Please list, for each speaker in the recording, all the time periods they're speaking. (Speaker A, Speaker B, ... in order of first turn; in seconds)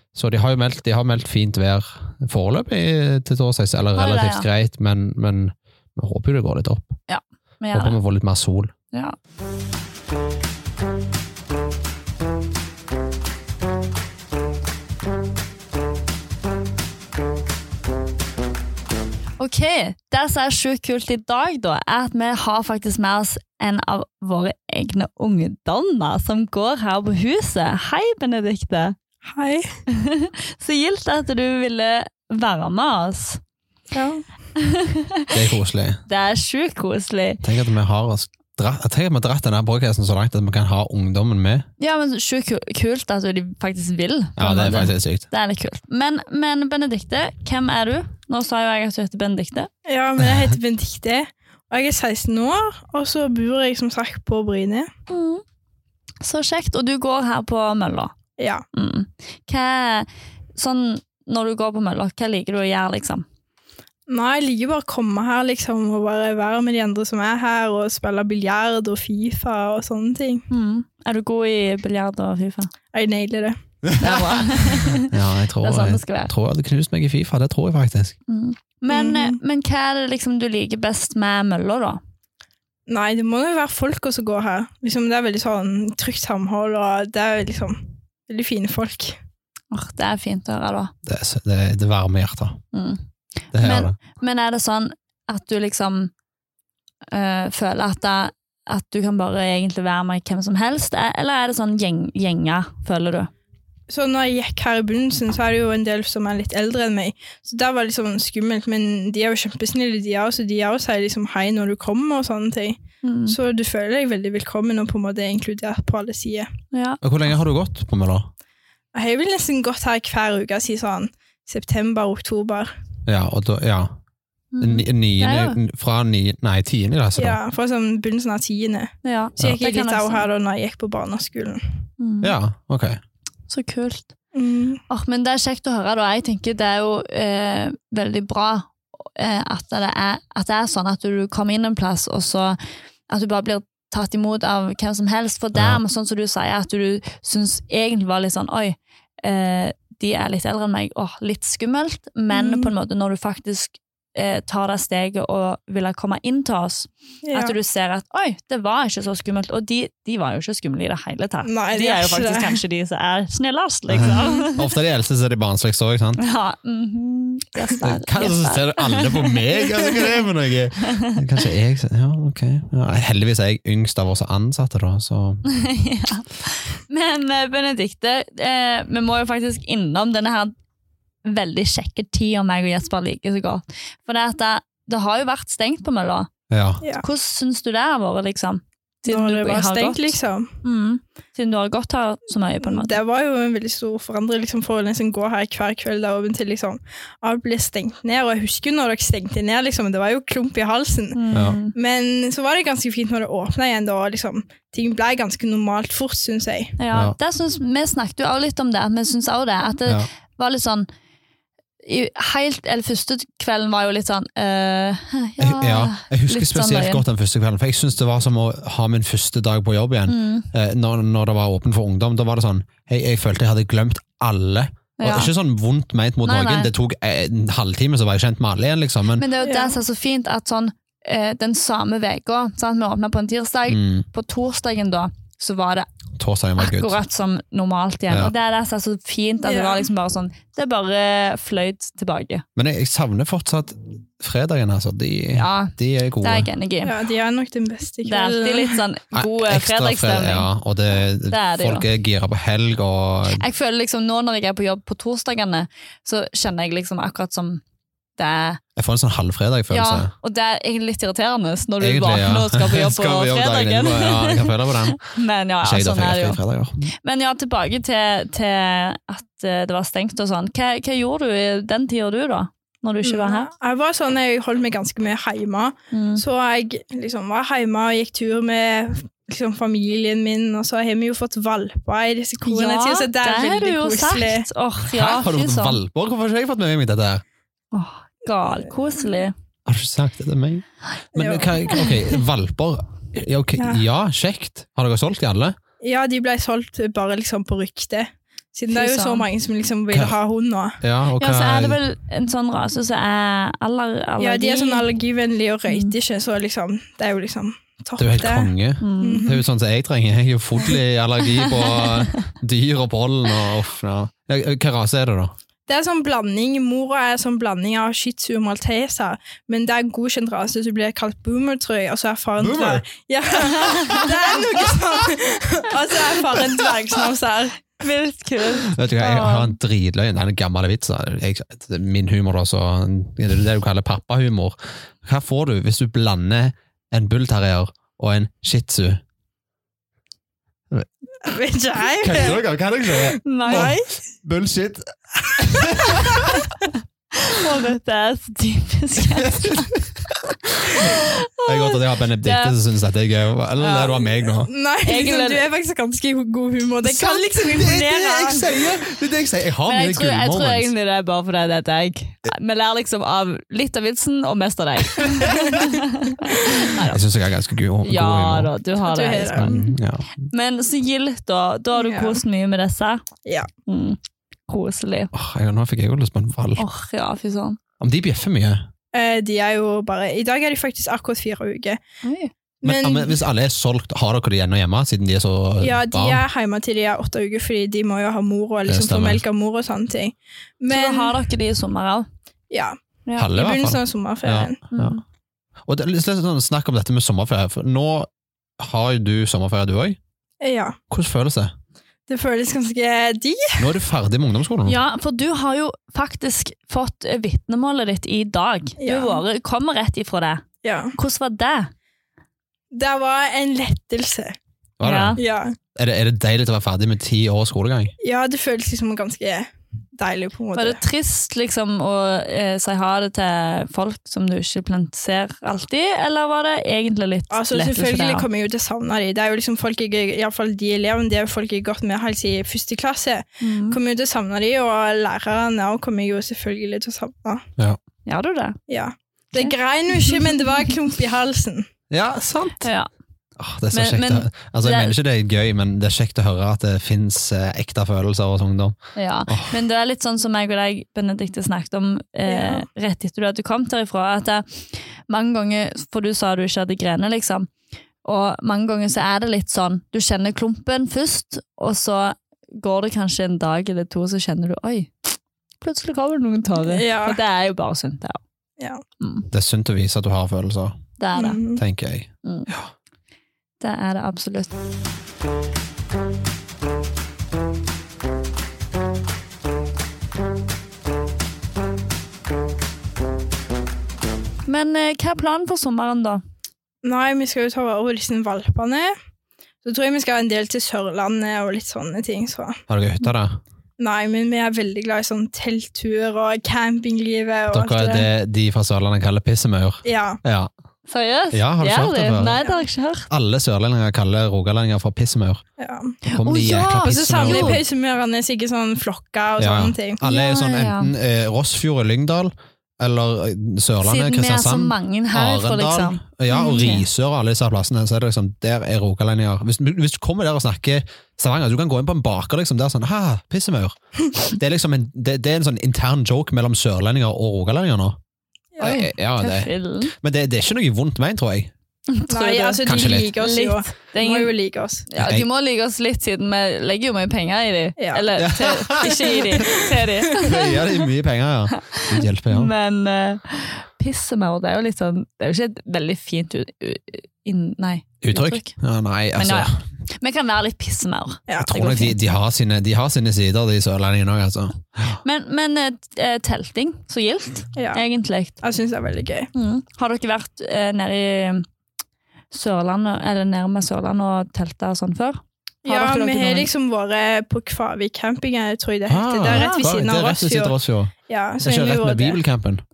Speaker A: 0.1-7.0, 7.7-8.7, 35.3-36.0, 37.4-41.7, 44.4-45.3, 73.9-78.2, 91.0-92.6, 93.5-94.0, 117.0-118.3, 123.1-124.0, 124.6-127.4, 132.2-133.0, 163.9-166.2, 167.8-175.4, 186.5-186.8, 201.3-201.6, 215.4-229.2, 233.7-234.1, 236.2-237.0, 242.6-246.5, 249.1-253.4, 258.8-260.1, 261.8-265.0, 265.6-266.9, 284.9-287.2, 289.7-295.6, 300.8-301.8, 308.0-315.3, 322.4-322.9, 328.7-339.0, 342.0-346.4, 349.2-354.5, 357.4-360.7, 365.0-365.4, 366.8-368.5, 369.3-370.1, 375.1-376.6, 377.8-378.7, 382.6-386.2, 388.7-389.2, 393.2-395.0, 395.7-400.0, 400.9-401.5, 403.6-404.8, 414.8-415.2, 415.8-417.9, 441.9-442.7, 443.4-448.8, 449.3-449.5, 469.3-470.8, 471.6-472.7, 492.7-493.4, 497.5-500.5, 501.3-502.4, 503.1-505.4, 506.1-507.6, 509.4-528.0, 528.6-531.5, 532.6-533.2, 535.0-535.3, 538.2-539.6, 540.1-542.5, 548.0-549.6, 551.4-555.0, 568.9-572.6
Speaker B: 4.0-4.5, 7.1-8.0, 19.4-29.0, 29.9-33.4, 34.6-35.4, 36.1-37.4, 41.8-49.7, 55.1-55.4, 56.2-58.1, 58.7-63.2, 70.5-72.7, 74.0-76.3, 78.3-82.0, 89.7-90.9, 92.7-93.0, 93.5-96.1, 97.1-103.3, 113.0-113.4, 116.7-117.0, 124.5-125.6, 129.0-130.3, 132.0-132.4, 133.5-134.1, 134.9-142.6, 143.1-164.6, 166.2-170.0, 170.8-171.2, 175.4-180.5, 181.2-186.3, 187.0-193.0, 201.1-201.7, 206.8-210.9, 211.8-217.1, 220.1-220.5, 225.0-225.3, 226.2-226.7, 229.2-235.9, 236.6-242.4, 245.3-246.9, 248.1-250.5, 251.3-251.9, 253.3-257.6, 258.2-258.6, 259.7-266.4, 267.0-273.5, 275.9-276.2, 282.4-285.8, 287.7-289.3, 291.7-291.9, 298.7-299.2, 301.2-304.8, 305.7-305.9, 308.8-309.3, 311.4-312.3, 323.5-324.6, 327.8-329.6, 343.3-343.8, 346.3-349.8, 350.7-352.6, 354.9-355.5, 356.9-357.2, 359.6-367.0, 367.8-369.6, 370.3-373.0, 373.7-375.1, 376.6-377.6, 382.0-382.3, 390.7-392.1, 394.7-395.0, 404.6-410.4, 411.0-411.7, 414.8-415.2, 420.6-428.3, 433.4-433.8, 438.1-438.6, 439.4-440.2, 442.6-442.9, 443.7-444.9, 449.0-454.4, 455.1-457.5, 458.0-464.9, 465.6-468.2, 469.0-469.3, 471.0-471.4, 472.2-472.5, 473.6-474.5, 484.5-486.2, 500.9-503.1, 506.1-507.6, 510.0-510.9, 513.8-516.9, 528.6-529.9, 531.9-534.3, 534.9-540.6, 541.5-548.5, 549.2-552.0, 555.0-558.4, 559.4-561.5, 562.3-566.5, 569.3-569.6
Speaker C: 29.3-29.7, 33.9-34.2, 49.9-54.9, 58.4-58.6, 64.1-70.5, 72.9-73.6, 78.9-79.4, 82.9-89.2, 103.9-116.5, 119.0-122.7, 127.2-131.6, 134.3-134.8, 152.3-152.7, 157.2-157.6, 161.4-162.6, 164.1-164.4, 189.1-190.5, 192.6-201.2, 201.7-206.8, 229.4-229.8, 239.4-239.9, 246.8-248.8, 273.0-284.5, 291.2-291.6, 293.6-293.8, 295.8-300.8, 304.2-309.4, 315.7-327.8, 341.2-343.9, 345.4-346.2, 353.7-353.9, 354.5-358.5, 365.3-365.6, 368.8-369.7, 371.7-372.2, 378.9-381.8, 382.6-383.2, 385.6-391.2, 392.5-392.8, 393.3-394.6, 400.4-400.8, 402.1-403.7, 408.8-409.2, 410.6-410.9, 412.7-414.3, 415.2-415.6, 418.0-420.8, 427.3-437.5, 438.7-441.7, 452.3-452.7, 466.6-467.2, 471.1-471.6, 486.8-488.9, 489.6-492.6, 493.8-498.1, 499.8-500.2, 505.6-506.0, 506.8-510.0, 528.5-528.8, 532.1-534.9, 537.8-538.0, 539.1-539.6, 557.6-557.8, 558.4-559.3, 565.7-570.6, 571.1-572.2